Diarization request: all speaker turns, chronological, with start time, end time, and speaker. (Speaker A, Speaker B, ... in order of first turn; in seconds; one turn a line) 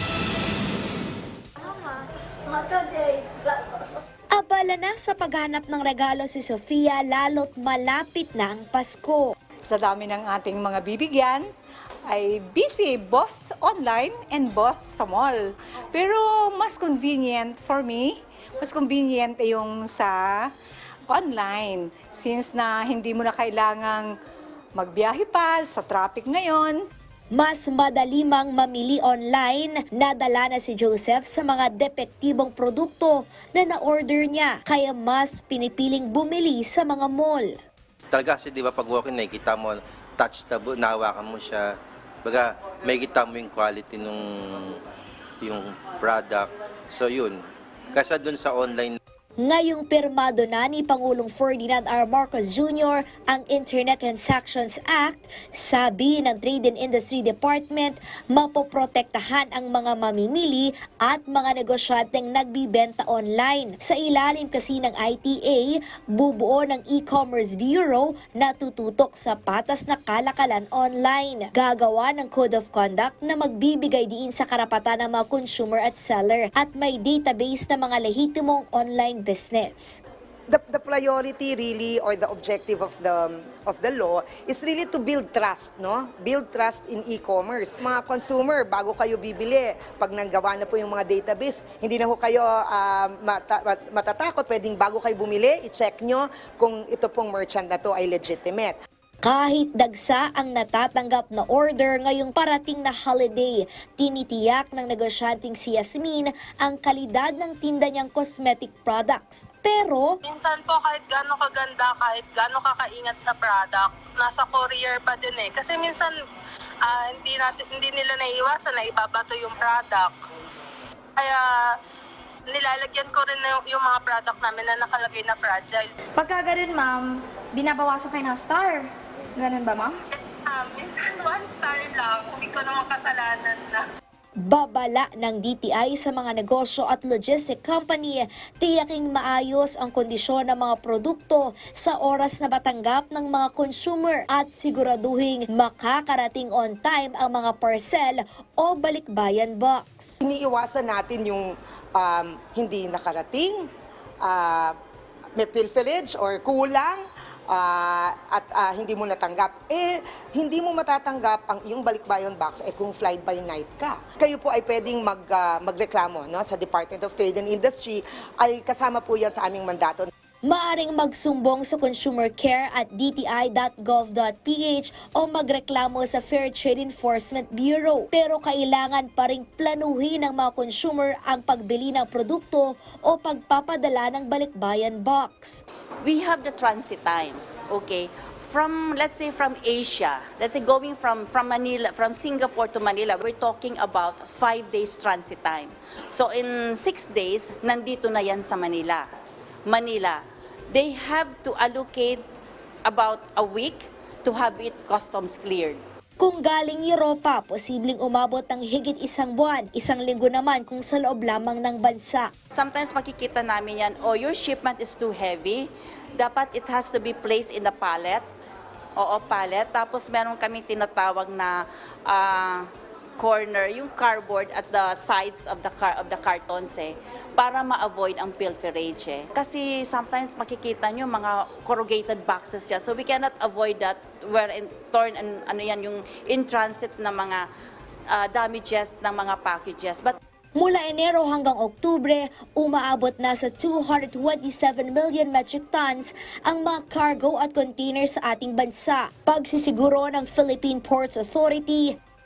Speaker A: 1.6-2.0
Speaker A: 2.5-3.4
Speaker B: 4.3-9.3
Speaker C: 9.7-11.5
Speaker C: 12.1-20.5
Speaker C: 21.1-24.1
Speaker C: 24.8-26.9
Speaker B: 27.3-37.5
Speaker D: 38.1-41.7
Speaker D: 42.2-44.8
Speaker D: 45.4-47.4
Speaker D: 47.9-49.0
Speaker B: 49.4-80.0
Speaker E: 80.5-98.7
Speaker B: 99.2-110.2
Speaker F: 110.3-116.2
Speaker F: 116.8-120.2
Speaker F: 121.2-121.7
Speaker F: 122.5-125.9
Speaker A: 126.2-129.9
Speaker F: 130.2-133.8
Speaker B: 134.4-150.2
Speaker E: 150.2-153.7
Speaker E: 154.2-154.7
Speaker E: 155.4-170.1
Speaker B: 170.4-185.6
Speaker G: 186.0-199.0
Speaker G: 199.7-202.2
Speaker G: 202.9-205.8
Speaker B: 206.2-212.3
Speaker G: 212.5-218.2
Speaker G: 219.0-222.7
Speaker G: 223.2-237.5
Speaker G: 238.1-240.2
Speaker B: 240.6-252.0